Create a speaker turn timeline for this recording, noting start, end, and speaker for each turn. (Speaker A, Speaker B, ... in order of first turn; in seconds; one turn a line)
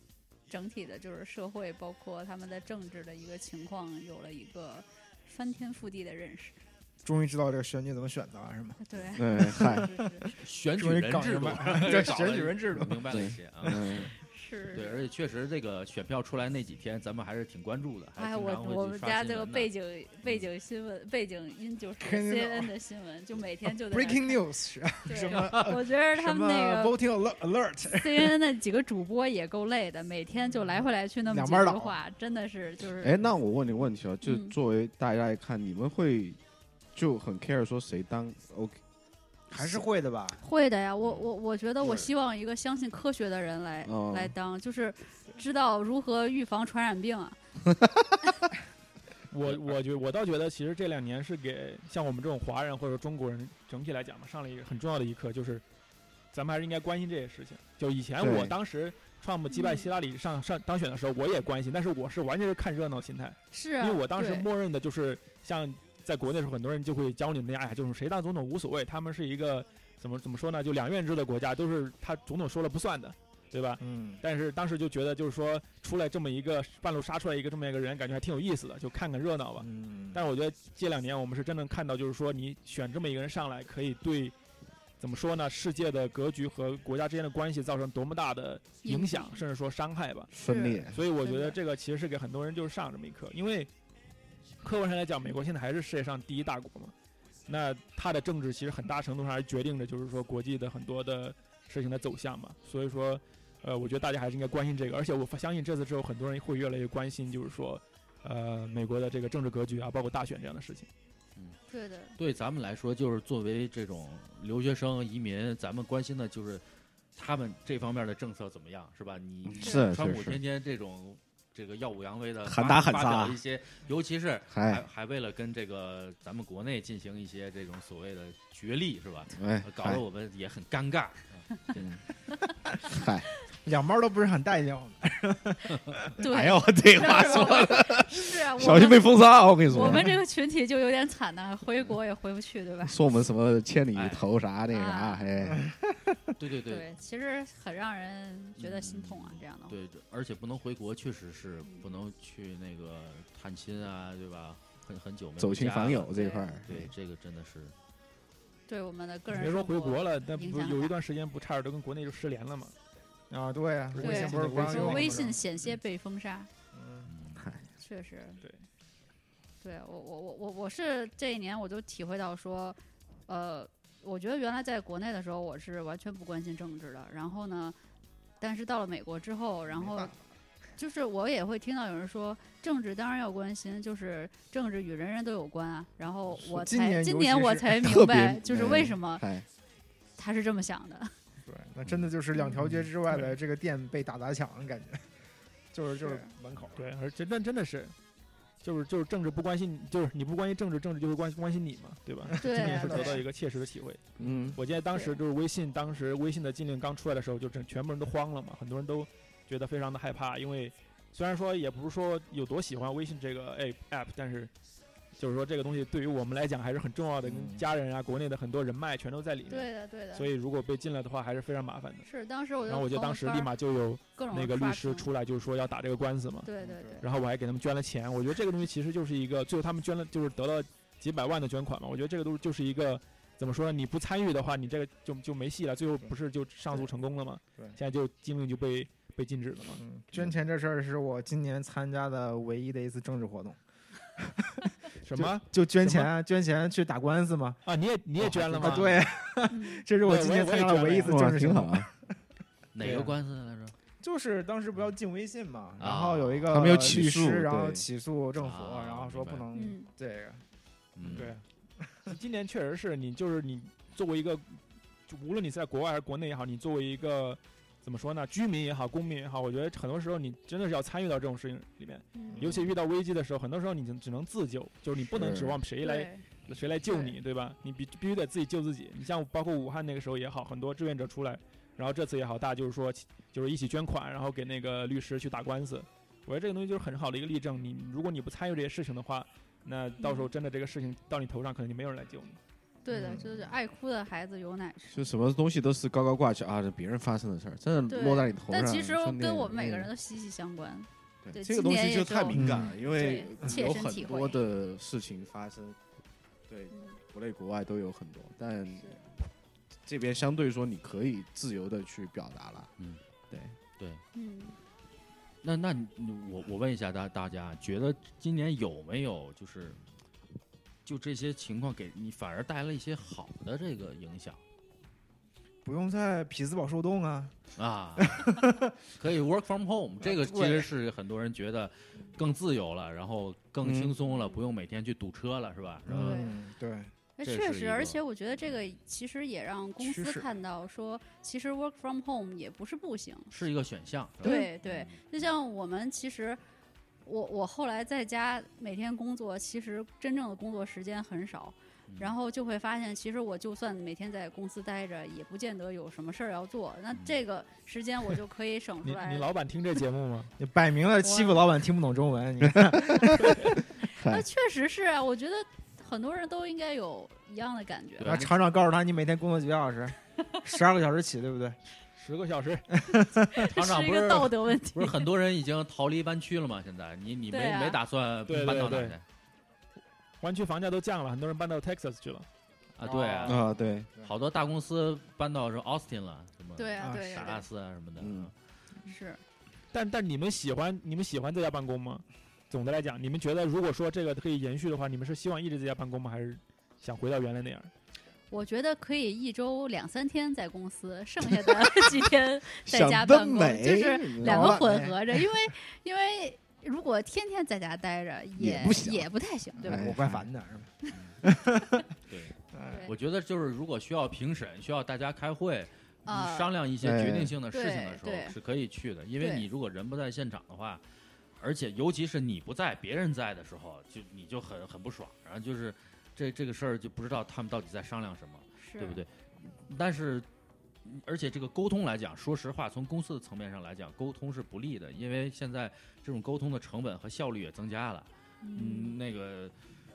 Speaker A: 0.5-6.6
Speaker B: 7.0-8.8
Speaker A: 8.8-10.3
Speaker C: 9.2-9.9
Speaker B: 9.4-13.9
Speaker D: 10.4-14.1
Speaker C: 13.0-14.1
Speaker A: 14.2-15.1
Speaker D: 14.7-19.7
Speaker A: 18.2-24.4
Speaker B: 22.0-22.7
Speaker B: 23.7-28.4
Speaker A: 25.1-26.9
Speaker D: 25.1-25.8
Speaker A: 28.0-33.2
Speaker B: 30.5-32.0
Speaker C: 33.0-36.4
Speaker A: 34.2-34.5
Speaker C: 37.0-38.8
Speaker B: 39.5-40.4
Speaker A: 40.4-47.4
Speaker C: 43.9-44.3
Speaker E: 49.3-55.6
Speaker D: 49.5-49.7
Speaker E: 56.3-84.3
Speaker C: 58.2-58.5
Speaker A: 59.5-59.9
Speaker A: 63.5-64.5
Speaker B: 73.8-74.2
Speaker B: 79.6-80.2
Speaker E: 85.0-90.3
Speaker A: 88.8-89.4
Speaker C: 90.3-91.0
Speaker A: 90.4-91.6
Speaker E: 90.9-93.7
Speaker E: 94.6-96.9
Speaker E: 97.5-110.9
Speaker A: 111.7-112.2
Speaker D: 112.2-116.6
Speaker D: 117.2-132.0
Speaker C: 119.5-120.4
Speaker A: 119.6-119.9
Speaker C: 122.4-123.4
Speaker C: 124.5-124.9
Speaker C: 129.4-130.0
Speaker C: 131.8-132.0
Speaker C: 132.9-133.3
Speaker B: 133.6-136.3
Speaker A: 136.2-143.0
Speaker C: 136.2-140.2
Speaker C: 142.8-145.6
Speaker D: 143.9-144.3
Speaker A: 144.7-145.3
Speaker D: 146.4-146.8
Speaker A: 146.7-149.8
Speaker D: 148.6-157.7
Speaker C: 155.4-156.9
Speaker A: 156.1-156.6
Speaker A: 158.7-160.9
Speaker E: 159.3-162.7
Speaker B: 163.3-165.4
Speaker E: 163.9-165.3
Speaker A: 164.0-166.5
Speaker B: 166.7-167.1
Speaker D: 167.1-167.5
Speaker C: 167.4-167.6
Speaker A: 167.8-168.4
Speaker A: 169.6-177.8
Speaker A: 178.4-180.1
Speaker B: 179.7-180.2
Speaker A: 180.8-189.2
Speaker B: 186.4-187.8
Speaker C: 187.8-189.5
Speaker A: 190.2-191.1
Speaker B: 191.4-195.1
Speaker B: 195.7-196.8
Speaker A: 196.0-196.3
Speaker E: 196.8-197.9
Speaker E: 198.6-204.0
Speaker B: 202.3-203.2
Speaker A: 202.4-203.2
Speaker C: 204.2-204.6
Speaker E: 204.6-214.5
Speaker A: 204.9-205.2
Speaker E: 215.2-222.1
Speaker B: 217.2-217.6
Speaker A: 219.5-220.3
Speaker A: 222.0-223.5
Speaker E: 222.7-226.5
Speaker A: 224.2-225.1
Speaker A: 226.4-227.1
Speaker B: 226.6-227.0
Speaker E: 227.0-239.8
Speaker B: 239.8-243.6
Speaker B: 244.2-247.6
Speaker E: 245.0-246.1
Speaker E: 247.7-249.1
Speaker D: 248.2-249.1
Speaker B: 248.5-252.0
Speaker A: 249.5-249.9
Speaker E: 250.0-251.2
Speaker C: 251.0-251.9
Speaker D: 252.7-253.8
Speaker B: 252.8-253.1
Speaker B: 254.0-260.4
Speaker D: 255.8-256.5
Speaker C: 256.5-257.9
Speaker D: 258.4-259.4
Speaker A: 259.5-259.9
Speaker D: 261.0-261.3
Speaker E: 261.1-261.4
Speaker E: 262.1-292.4
Speaker A: 272.1-272.4
Speaker C: 275.1-275.6
Speaker A: 275.8-276.3
Speaker A: 276.9-277.1
Speaker A: 290.0-290.3
Speaker A: 292.8-295.0
Speaker B: 292.9-293.5
Speaker C: 294.9-299.9
Speaker A: 297.9-304.4
Speaker C: 301.2-305.8
Speaker B: 302.3-302.8
Speaker C: 306.5-309.0
Speaker A: 306.7-307.0
Speaker C: 309.9-312.7
Speaker C: 313.3-313.6
Speaker D: 313.8-314.0
Speaker A: 314.1-314.6
Speaker D: 315.4-319.8
Speaker D: 320.9-324.4
Speaker B: 325.6-327.3
Speaker D: 327.6-328.4
Speaker B: 328.0-328.8
Speaker D: 328.9-336.3
Speaker B: 330.0-330.7
Speaker C: 333.6-333.9
Speaker A: 334.1-334.4
Speaker B: 335.9-336.9
Speaker A: 336.0-336.4
Speaker A: 337.2-343.3
Speaker D: 337.2-338.0
Speaker B: 339.8-340.3
Speaker D: 343.3-345.3
Speaker A: 344.2-346.4
Speaker A: 347.1-359.3
Speaker D: 351.9-352.1
Speaker D: 356.9-357.2
Speaker E: 358.8-360.3
Speaker B: 360.4-363.6
Speaker A: 361.0-361.4
Speaker C: 362.9-364.2
Speaker E: 363.2-363.6
Speaker A: 363.8-368.2
Speaker D: 368.0-368.3
Speaker B: 368.1-371.6
Speaker E: 372.0-372.7
Speaker B: 372.8-373.5
Speaker A: 373.4-375.1
Speaker D: 373.4-379.0
Speaker A: 377.3-377.8
Speaker E: 378.3-379.0
Speaker E: 380.2-382.3
Speaker D: 382.8-383.5
Speaker B: 382.9-384.1
Speaker C: 383.2-383.9
Speaker D: 384.0-388.3
Speaker A: 386.6-387.5
Speaker B: 386.8-387.3
Speaker C: 388.0-388.3
Speaker A: 388.9-389.2
Speaker E: 389.7-397.7
Speaker A: 398.3-409.8
Speaker C: 402.6-404.7
Speaker B: 404.2-405.0
Speaker C: 408.4-409.1
Speaker B: 409.6-411.9
Speaker C: 409.6-410.3
Speaker D: 410.9-411.2
Speaker D: 412.1-412.4
Speaker B: 412.5-412.9
Speaker D: 412.9-420.8
Speaker A: 416.1-416.5
Speaker C: 416.8-417.4
Speaker A: 417.5-418.4
Speaker A: 419.2-419.4
Speaker D: 421.4-430.3
Speaker A: 428.6-429.0
Speaker D: 430.9-439.6
Speaker A: 438.4-439.0